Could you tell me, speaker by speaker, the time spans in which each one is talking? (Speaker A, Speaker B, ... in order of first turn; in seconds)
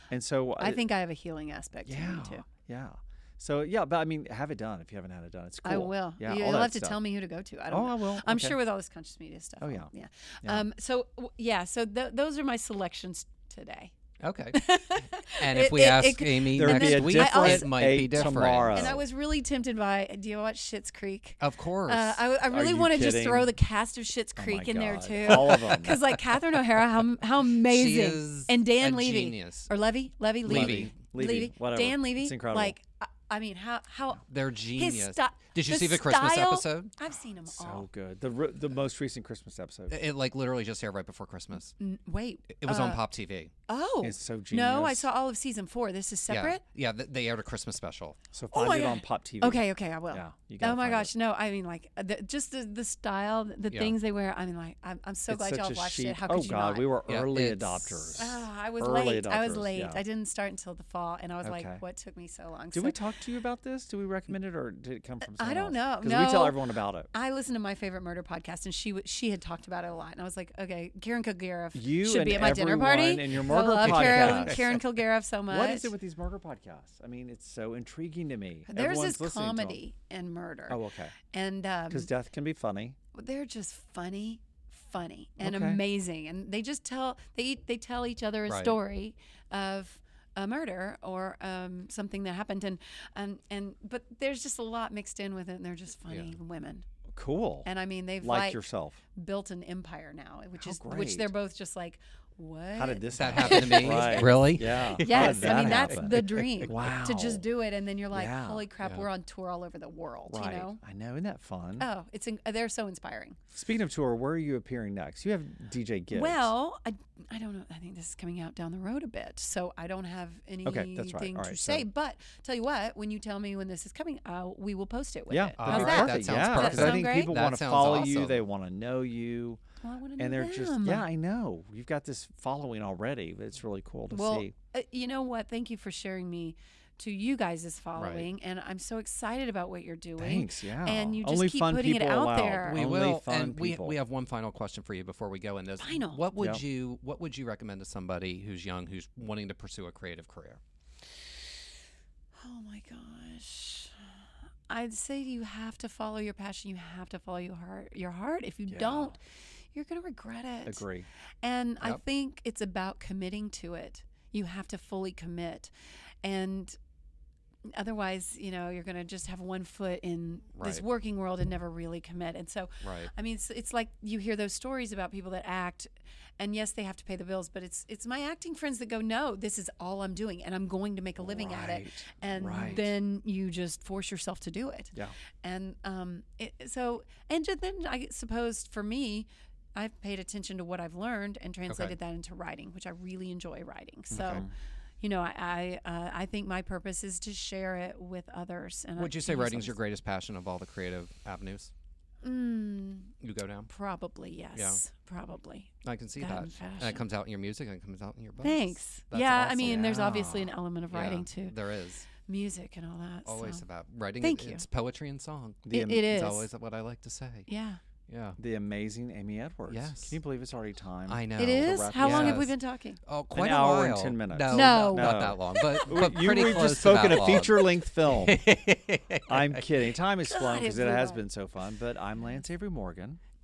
Speaker A: 0.1-0.8, 1.9-7.0, 7.7-8.6, 9.6-9.9, 16.6-19.0, 22.5-23.5, 24.4-25.9, 30.4-32.8, 37.5-40.0, 44.0-45.1, 48.3-51.1, 55.3-60.0, 61.4-61.8, 62.7-67.1, 71.7-74.8, 75.5-79.8, 80.7-81.1, 81.9-83.0, 85.4-85.8, 97.1-97.7, 98.2-99.0, 100.6-101.3, 102.8-107.4, 108.1-108.7, 110.3-111.9, 113.5-116.5, 120.7-121.9, 125.3-129.6, 130.2-134.5, 140.2-144.0, 158.7-159.2, 160.7-161.1, 181.2-182.9, 194.1-194.5, 209.6-210.5, 215.7-216.1, 218.4-222.5, 223.3-228.4, 229.3-233.2
Speaker B: 0.6-2.5, 5.6-13.9, 14.5-34.2, 34.8-37.9, 41.8-43.0, 43.7-46.6, 48.5-56.9, 58.2-63.0, 65.3-75.9, 78.7-82.1, 83.1-96.8, 97.7-98.6, 99.2-110.8, 111.8-113.4, 116.1-127.4, 129.8-131.1, 134.1-142.8, 145.8-146.2, 152.4-154.0, 154.7-159.2, 159.7-160.8, 161.4-165.7, 166.2-166.8, 167.7-194.5, 195.0-199.8, 202.2-203.1, 203.7-207.0, 208.4-211.5, 212.2-213.6, 214.2-214.6, 215.7-216.5, 217.5-217.8, 221.4-223.0, 224.5-225.6, 230.2-231.2
Speaker C: 14.2-14.6, 15.3-19.0, 21.4-22.2, 27.7-29.7, 30.4-30.9, 34.3-36.9, 39.9-41.7, 42.5-43.5, 46.3-48.2, 53.7-54.0, 57.1-58.2, 73.8-74.6, 88.5-88.8, 96.1-96.3, 103.1-106.7, 125.6-128.4, 138.0-138.3, 142.7-150.6, 170.6-170.8, 172.8-173.1, 191.7-191.9, 194.1-194.4, 199.0-201.7, 203.2-203.7, 204.5-204.8, 205.8-210.0, 210.9-212.1, 213.3-217.5, 218.1-218.4, 219.7-220.2, 221.1-229.6